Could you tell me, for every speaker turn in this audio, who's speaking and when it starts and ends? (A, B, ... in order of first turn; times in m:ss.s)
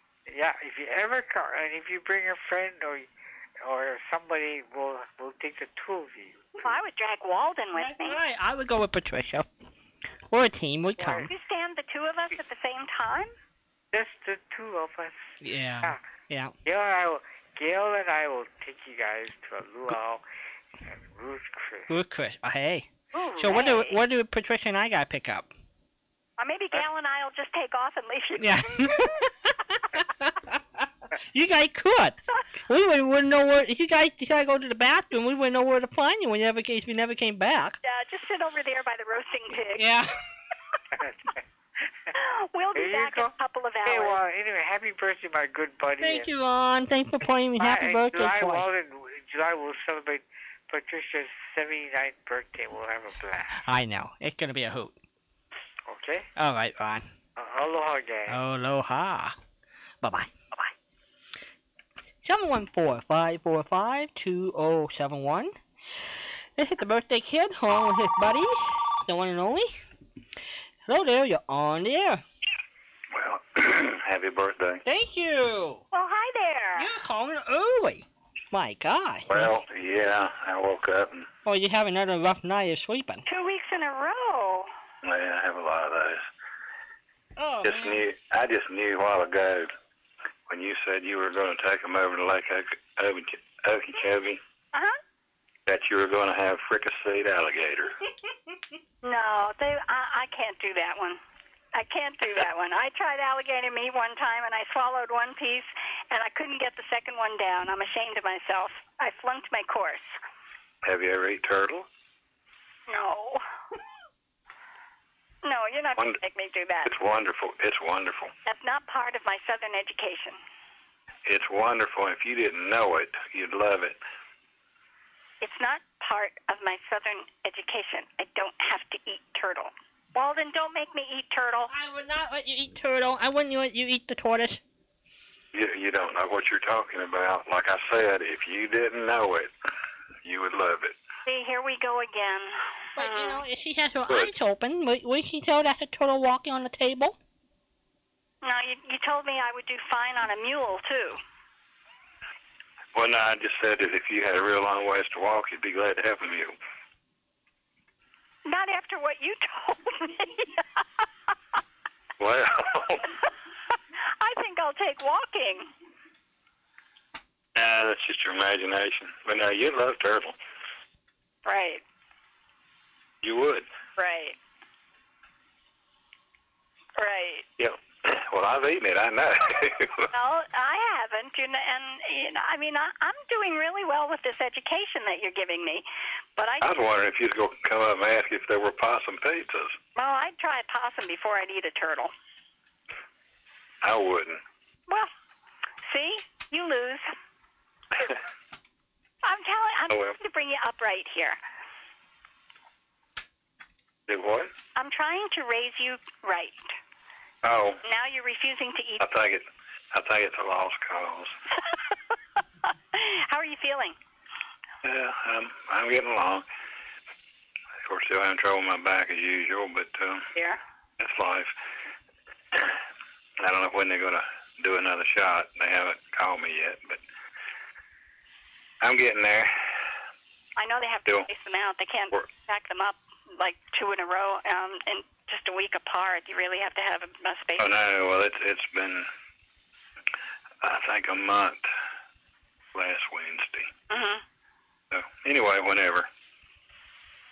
0:00.3-0:03.1 A
0:03.6-0:06.5 A
0:06.6-0:08.2 B
0:07.8-0:09.5 C
0:10.3-0:11.3 C
0:11.0-0:11.3 A
0:11.3-0:13.3 B
0:13.9-0:16.0 A
0:15.4-0:16.5 C
0:16.6-0:20.2 A
0:20.8-0:21.9 A
0:21.9-0:22.9 C
0:23.1-0:24.0 B
0:23.4-0:25.5 C
0:26.4-0:29.0 B
0:28.4-0:37.8 C
0:37.8-0:39.8 B
0:39.8-0:40.2 C
0:40.9-0:41.4 A
0:42.2-0:44.2 B
0:42.8-0:43.3 A
0:43.8-0:46.3 A
0:46.0-0:48.7 C
0:47.6-0:53.7 A
0:53.6-0:55.0 C
0:55.9-0:56.3 A
0:56.4-0:57.1 C
0:57.4-0:58.4 A
0:58.3-0:59.4 C
1:00.0-1:00.3 C
1:02.2-1:09.7 C
1:10.9-1:12.2 C
1:13.1-1:14.8 D
1:14.8-1:15.8 C
1:15.9-1:16.9 B
1:16.8-1:19.5 C
1:19.3-1:21.3 D
1:21.4-1:23.2 C
1:23.3-1:24.7 B
1:25.0-1:26.3 D
1:27.4-1:28.0 C
1:27.6-1:29.7 D
1:30.5-1:34.4 D
1:35.7-1:38.0 D
1:39.0-1:41.2 B
1:41.7-1:50.2 B
1:50.8-1:51.9 D
1:52.9-1:53.4 B
1:55.4-1:56.9 B
1:56.8-1:58.3 D
1:58.5-2:00.4 B
2:01.3-2:04.0 D
2:05.4-2:11.7 B
2:11.7-2:14.6 C
2:15.5-2:19.5 D
2:20.2-2:21.0 D
2:21.3-2:23.4 B
2:23.0-2:27.2 C
2:28.4-2:31.2 B
2:32.9-2:36.6 D
2:38.5-2:40.6 B
2:42.2-2:43.1 D
2:44.2-2:45.7 B
2:47.6-2:50.4 D
2:51.4-2:51.8 B
2:53.2-2:53.7 D
2:54.0-2:54.4 B
2:57.0-2:57.5 B
2:57.6-3:00.1 D
3:00.1-3:05.9 B
3:06.4-3:06.7 B
3:06.6-3:09.8 D
3:10.0-3:12.1 B
3:13.8-3:14.4 D
3:15.9-3:17.1 B
3:19.2-3:21.4 B
3:19.9-3:20.2 D
3:24.1-3:24.5 D
3:24.8-3:26.7 B
3:27.4-3:27.8 D
3:27.8-3:29.0 B
3:29.0-3:31.3 D
3:32.9-3:34.0 B
3:34.8-3:36.4 D
3:37.9-3:40.3 D
3:40.4-3:40.6 B
3:41.0-3:41.5 D
3:43.4-3:47.0 D
3:48.8-3:49.6 D
3:50.6-3:57.7 B
3:57.6-3:59.1 D
4:00.6-4:01.7 D
4:02.7-4:03.7 D
4:03.9-4:04.2 B
4:04.9-4:06.1 D